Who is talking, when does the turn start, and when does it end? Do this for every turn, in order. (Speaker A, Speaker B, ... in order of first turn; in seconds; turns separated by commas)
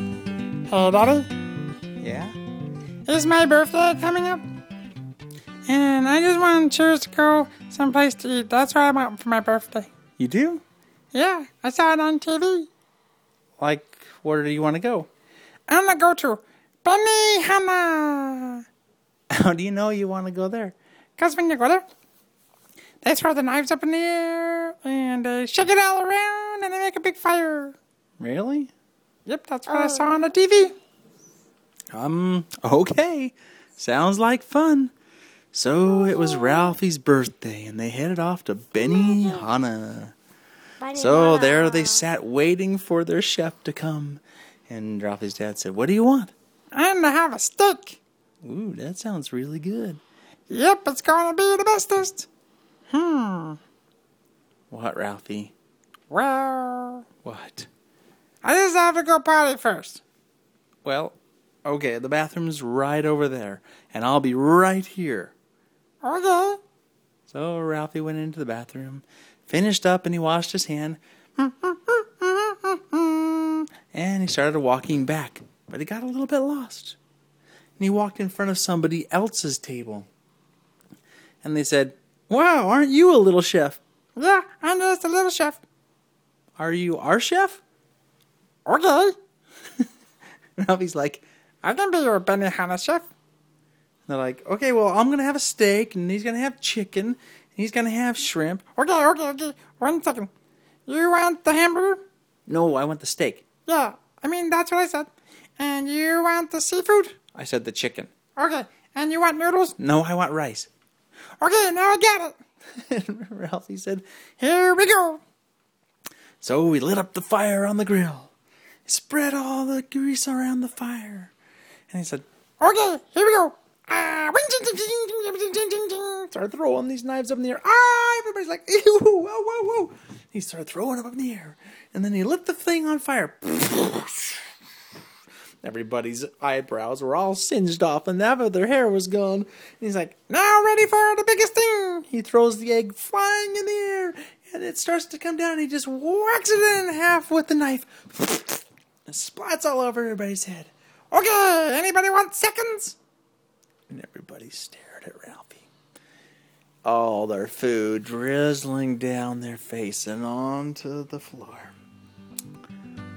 Speaker A: 0.7-1.3, Speaker B: 2.0-2.4, Speaker A: 3.0-4.4, Speaker A: 5.7-9.9, Speaker B: 10.1-10.6, Speaker A: 11.1-12.7, Speaker B: 13.6-15.1, Speaker A: 15.7-18.6, Speaker B: 19.3-20.8, Speaker A: 21.2-21.8, Speaker A: 23.0-27.8, Speaker B: 28.2-28.7, Speaker A: 29.2-30.8, Speaker B: 31.9-34.9, Speaker B: 35.5-40.1, Speaker B: 40.8-46.3, Speaker A: 46.7-48.0, Speaker B: 48.4-50.0, Speaker A: 50.5-52.3, Speaker A: 52.9-53.6, Speaker B: 54.7-55.5, Speaker A: 56.1-57.1, Speaker B: 57.2-57.7, Speaker A: 58.4-60.0, Speaker B: 60.8-65.3, Speaker A: 66.0-66.6, Speaker B: 67.3-77.0, Speaker B: 77.8-80.1, Speaker B: 81.4-83.8, Speaker A: 84.2-85.6, Speaker B: 86.6-87.6, Speaker A: 88.7-89.1, Speaker B: 90.6-91.2, Speaker A: 91.6-93.1, Speaker B: 94.1-98.8, Speaker A: 98.8-100.3, Speaker A: 100.9-102.0, Speaker B: 102.5-103.5, Speaker A: 103.7-107.2, Speaker B: 107.2-108.1, Speaker A: 108.3-109.7, Speaker B: 109.8-110.7, Speaker A: 111.4-112.4, Speaker B: 112.8-114.0, Speaker A: 114.4-115.2, Speaker B: 116.4-118.3, Speaker B: 118.8-121.3, Speaker B: 121.9-122.2, Speaker A: 122.6-126.3, Speaker B: 126.3-134.4, Speaker B: 135.6-141.0, Speaker A: 140.9-142.0, Speaker B: 142.0-150.7, Speaker A: 151.1-153.0, Speaker B: 153.9-155.7, Speaker B: 156.8-161.7